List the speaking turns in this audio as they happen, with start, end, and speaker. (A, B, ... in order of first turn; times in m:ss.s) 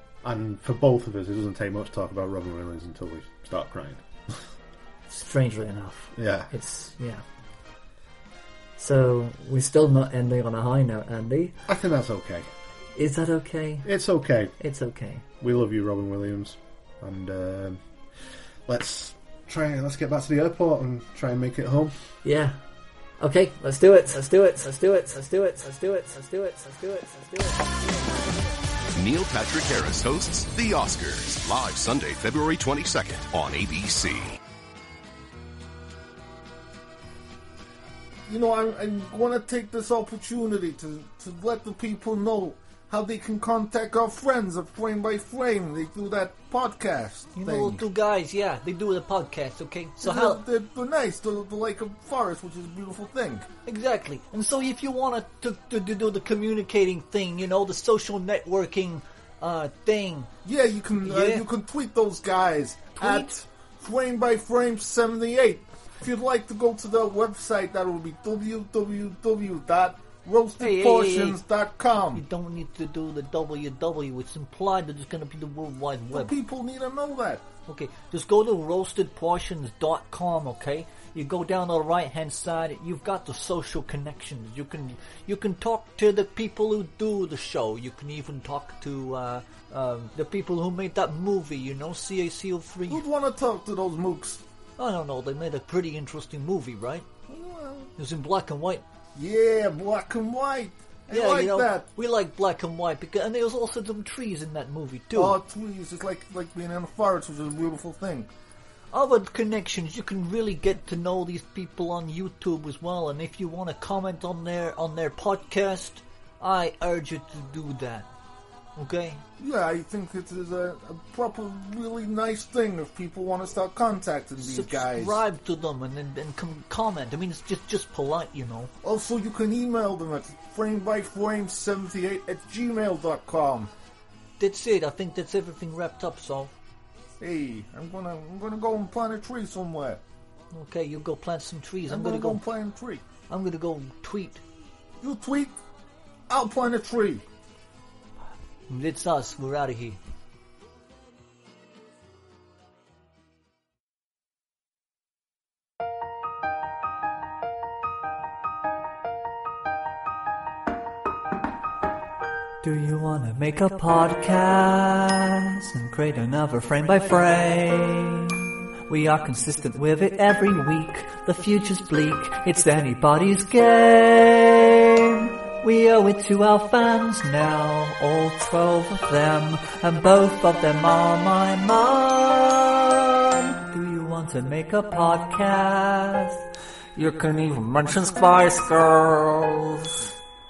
0:00.2-0:04.0 A
0:05.1-0:07.2 B
0:06.1-0:06.5 A
0:08.8-0:11.6 B
0:11.7-0:12.5 A
0:12.9-0:13.9 B
0:13.8-0:14.5 A
0:14.6-0:15.2 B
0:15.4-0:17.8 A
0:18.7-0:21.9 A
0:22.2-0:22.6 B
0:23.2-0:28.4 B
0:28.9-0:34.4 C
0:38.2-0:47.8 D
0:47.4-0:50.4 E
0:50.0-0:53.5 D
0:53.6-1:00.3 E
1:00.4-1:12.2 D
1:01.0-1:01.4 E
1:03.0-1:03.3 E
1:10.6-1:11.4 E
1:12.1-1:16.3 E
1:16.1-1:17.5 D
1:17.7-1:33.0 E
1:32.9-1:34.4 D
1:34.8-1:37.1 E
1:37.2-1:37.9 D
1:38.0-1:38.8 E
1:39.1-1:41.9 D
1:41.1-1:45.4 E
1:45.1-1:48.3 D
1:48.9-1:58.1 E
1:58.8-1:59.2 E
1:59.4-2:05.2 D
2:04.4-2:08.7 E
2:08.8-2:13.7 D
2:14.4-2:16.5 E
2:17.2-2:20.0 D
2:20.5-2:22.4 E
2:21.9-2:23.1 D
2:23.3-2:24.4 E
2:25.0-2:25.6 D
2:26.3-2:27.2 D
2:28.7-2:30.0 E
2:42.6-3:03.0 B
3:03.6-3:10.0 B